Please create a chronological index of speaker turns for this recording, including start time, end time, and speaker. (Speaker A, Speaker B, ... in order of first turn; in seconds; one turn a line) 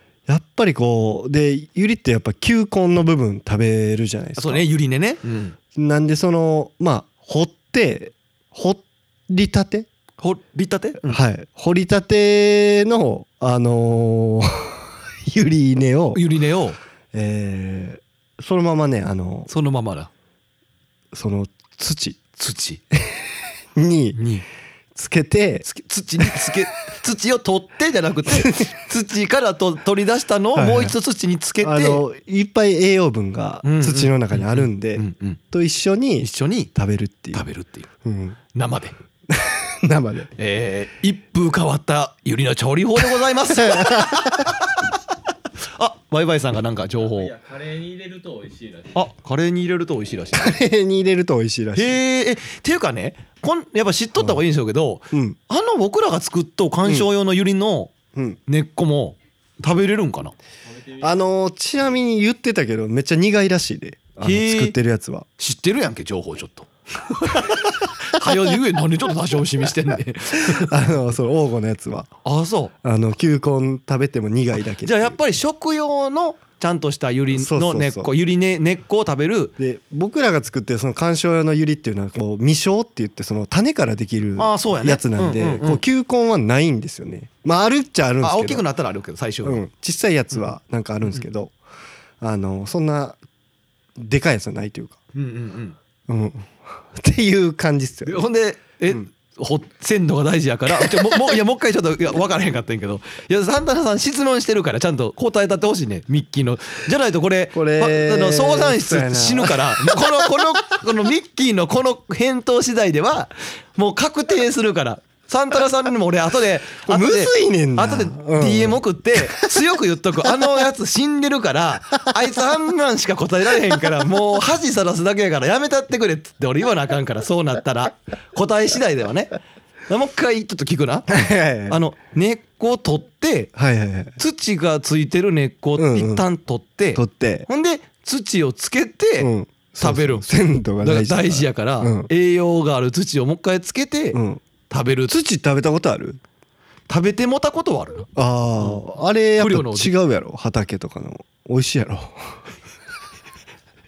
Speaker A: 0.3-4.7
Speaker B: 4.4-5.5
Speaker A: 5.7-9.9
Speaker B: 10.2-11.2
Speaker A: 11.1-16.2
Speaker B: 16.1-16.8
Speaker A: 17.1-19.5
Speaker B: 19.5-20.1
Speaker A: 21.1-22.2
Speaker B: 22.4-22.8
Speaker A: 22.9-23.2
Speaker A: 23.7-24.2
Speaker B: 24.1-24.4
Speaker A: 24.9-25.6
Speaker B: 25.6-32.0
Speaker A: 26.2-26.5
Speaker A: 28.3-28.6
Speaker A: 30.5-30.9
Speaker A: 31.6-37.4
Speaker B: 33.6-35.4
Speaker B: 36.2-36.7
Speaker B: 37.3-37.9
Speaker A: 38.0-38.4
Speaker B: 38.5-38.9
Speaker A: 39.3-40.3
Speaker B: 40.4-44.5
Speaker A: 43.5-44.5
Speaker B: 45.8-47.3
Speaker C: 46.9-49.1
Speaker B: 48.9-50.6
Speaker A: 50.3-52.0
Speaker B: 51.7-57.9
Speaker A: 55.1-55.4
Speaker A: 56.8-57.1
Speaker A: 58.1-58.4
Speaker B: 58.5-60.3
Speaker C: 60.6-61.1
Speaker A: 61.0-65.2
Speaker B: 64.2-64.7
Speaker B: 65.4-70.8
Speaker A: 70.4-72.1
Speaker B: 72.2-72.7
Speaker A: 72.8-75.2
Speaker B: 74.8-79.5
Speaker A: 77.3-78.1
Speaker A: 79.6-88.6
Speaker B: 84.4-85.8
Speaker B: 88.2-89.6
Speaker A: 89.4-91.5
Speaker A: 92.2-93.2
Speaker A: 94.0-95.0
Speaker B: 95.1-95.8
Speaker A: 96.1-98.2
Speaker B: 98.0-131.1
Speaker A: 100.8-101.1
Speaker A: 107.5-110.4
Speaker A: 116.8-119.6
Speaker A: 120.2-120.6
Speaker A: 131.1-131.8
Speaker B: 131.7-133.5
Speaker A: 133.5-134.2
Speaker B: 134.2-145.2
Speaker A: 135.8-136.2
Speaker A: 136.9-137.5
Speaker A: 139.2-142.1
Speaker A: 144.1-144.4
Speaker A: 145.1-146.2
Speaker B: 146.9-148.8
Speaker A: 148.1-152.3
Speaker B: 149.4-149.9